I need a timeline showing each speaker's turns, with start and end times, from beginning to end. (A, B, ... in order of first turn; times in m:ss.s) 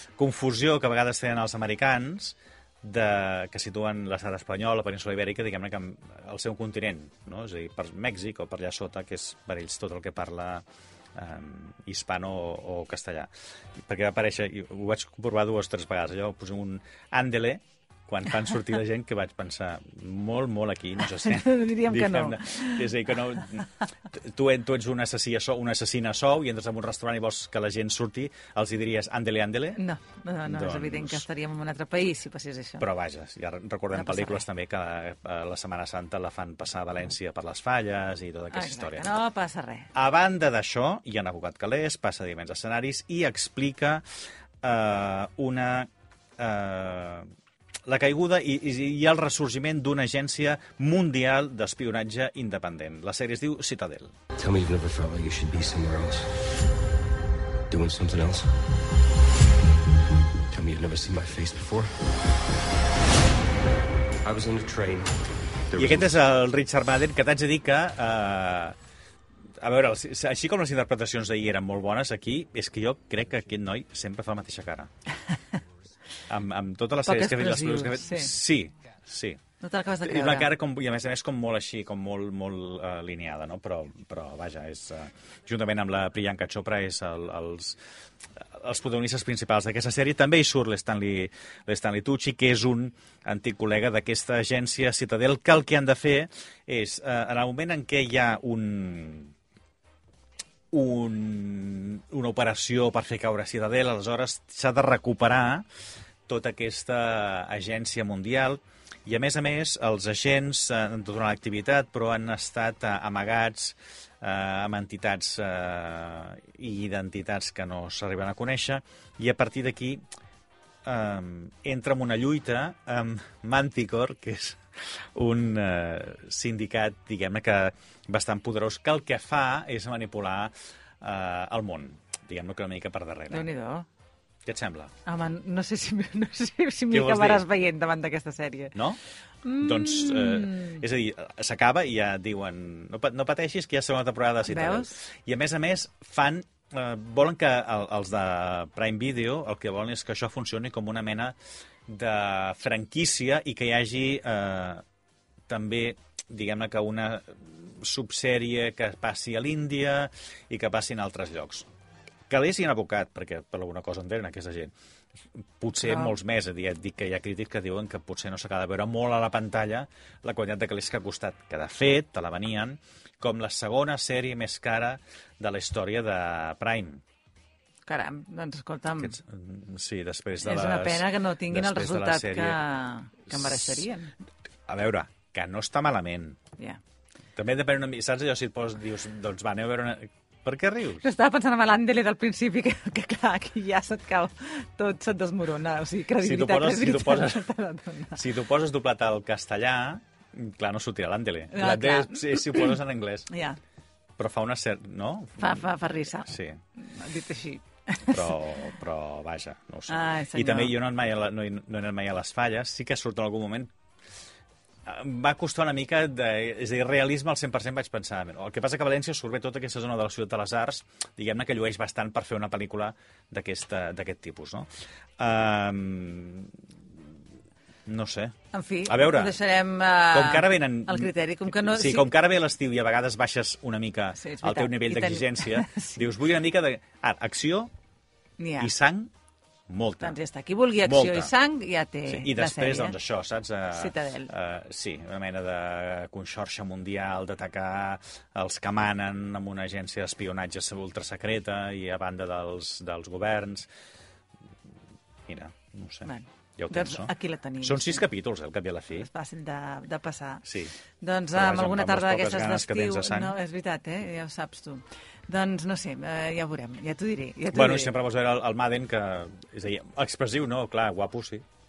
0:00.2-0:10.6 A
0:11.2-0:13.3 A
0:13.8-0:29.8 A
0:21.0-0:23.0 B
0:29.8-0:32.9 B
0:30.4-0:31.2 A
0:32.8-0:39.1 A
0:33.9-0:34.4 B
0:38.5-0:39.9 B
0:39.9-0:44.0 A
0:44.6-0:47.3 A
0:47.9-0:54.2 A
0:54.4-0:56.3 C
0:57.7-0:58.5 C
1:00.5-1:01.9 C
1:04.2-1:06.1 C
1:05.8-1:08.8 A
1:09.6-1:14.9 A
1:16.3-1:19.4 A
1:17.1-1:18.3 B
1:19.6-1:20.5 B
1:20.0-1:27.8 A
1:28.4-1:39.3 A
1:40.7-1:45.6 A
1:46.3-2:00.0 A
2:00.8-2:13.5 A
2:13.3-2:13.9 B
2:14.5-2:14.9 A
2:15.0-2:18.8 B
2:16.9-2:17.5 A
2:18.8-2:19.0 A
2:19.4-2:20.8 B
2:19.6-2:31.4 A
2:24.4-2:24.9 B
2:31.9-2:34.8 A
2:35.5-2:41.7 A
2:42.3-2:44.7 A
2:45.6-2:57.0 A
2:45.8-2:46.1 B
2:57.9-2:59.2 B
2:59.0-3:02.6 A
3:00.4-3:04.1 B
3:03.3-3:03.9 A
3:04.7-3:06.4 A
3:07.4-3:11.0 A
3:11.0-3:18.3 B
3:16.2-3:17.5 A
3:18.1-3:23.3 A
3:21.5-3:23.6 B
3:24.2-3:26.6 A
3:25.4-3:28.4 B
3:28.1-3:33.7 A
3:29.9-3:30.8 B
3:34.9-3:44.7 A
3:45.2-3:46.6 A
3:47.9-3:49.4 A
3:48.5-3:52.1 B
3:50.1-3:57.7 A
3:54.2-3:56.0 B
3:58.4-3:58.7 B
3:58.6-3:59.1 A
3:59.7-4:00.2 A
4:00.0-4:03.0 B
4:00.8-4:01.3 A
4:02.1-4:13.7 A
4:03.7-4:04.3 B
4:15.3-4:19.1 A
4:16.0-4:18.1 B
4:19.0-4:20.5 B
4:20.4-4:20.7 A
4:21.0-4:28.0 B
4:21.3-4:23.4 A
4:27.5-4:31.4 A